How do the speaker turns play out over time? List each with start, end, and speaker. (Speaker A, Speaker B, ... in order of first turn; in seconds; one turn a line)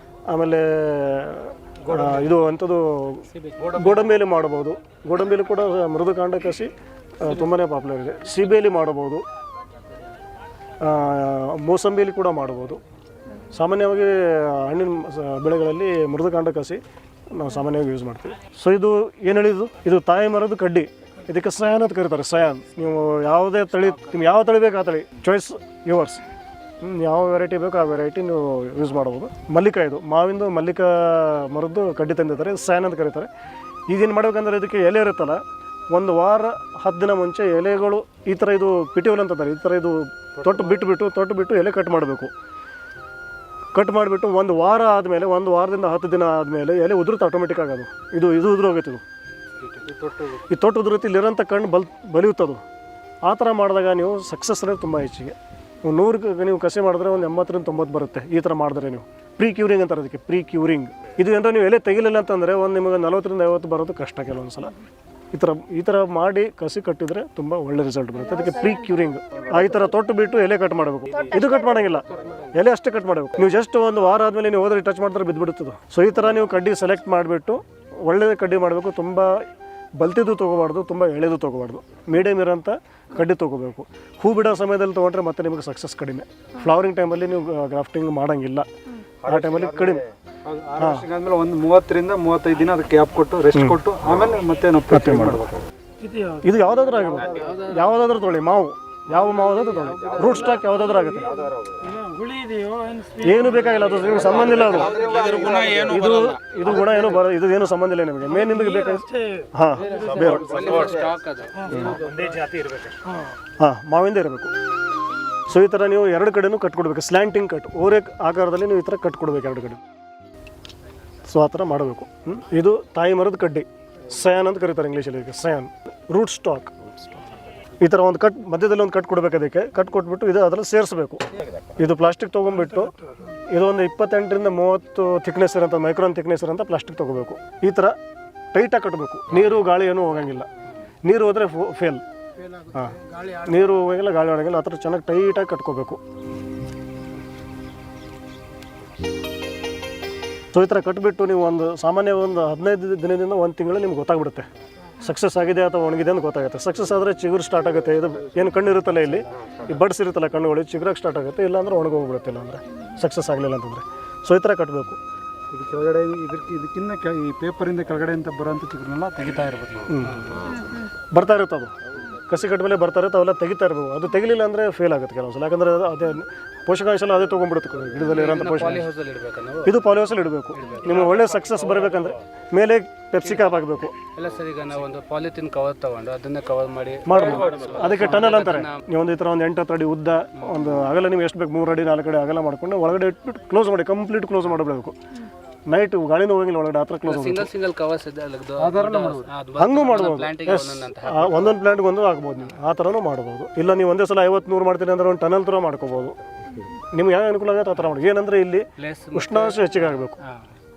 Speaker A: 0.3-9.2
Speaker B: 3.6-3.9
Speaker A: 10.8-12.8
Speaker A: 13.5-16.8
Speaker A: 17.3-26.2
Speaker A: 26.8-33.3
Speaker A: 33.9-35.4
Speaker A: 35.9-42.3
Speaker A: 43.7-49.0
Speaker C: 49.6-50.0
Speaker B: 49.8-50.4
Speaker A: 50.5-52.6
Speaker A: 53.2-64.7
Speaker A: 65.3-79.4
Speaker A: 80.0-88.7
Speaker A: 89.2-90.0
Speaker B: 90.5-95.5
Speaker A: 90.8-91.1
Speaker A: 93.5-93.8
Speaker A: 94.9-95.5
Speaker A: 96.4-101.4
Speaker B: 101.9-103.2
Speaker A: 103.2-104.9
Speaker B: 104.0-106.0
Speaker C: 105.1-105.4
Speaker A: 105.7-110.8
Speaker B: 108.4-111.1
Speaker C: 110.0-111.7
Speaker B: 111.7-113.0
Speaker A: 113.6-114.5
Speaker A: 115.5-119.8
Speaker A: 121.2-126.7
Speaker A: 127.8-131.2
Speaker A: 131.8-132.9
Speaker A: 133.5-137.9
Speaker A: 138.5-140.5
Speaker A: 141.0-142.0
Speaker A: 142.7-146.0
Speaker A: 150.5-154.4
Speaker A: 155.0-165.0
Speaker B: 165.5-170.1
Speaker A: 169.9-170.3
Speaker A: 171.1-178.9
Speaker C: 178.1-179.7
Speaker A: 179.6-183.9
Speaker C: 180.6-181.5
Speaker C: 184.2-188.8
Speaker A: 187.1-194.9
Speaker A: 195.7-197.5
Speaker C: 197.1-201.6
Speaker B: 198.6-199.3
Speaker A: 199.6-206.2
Speaker A: 206.9-210.2
Speaker C: 208.8-210.4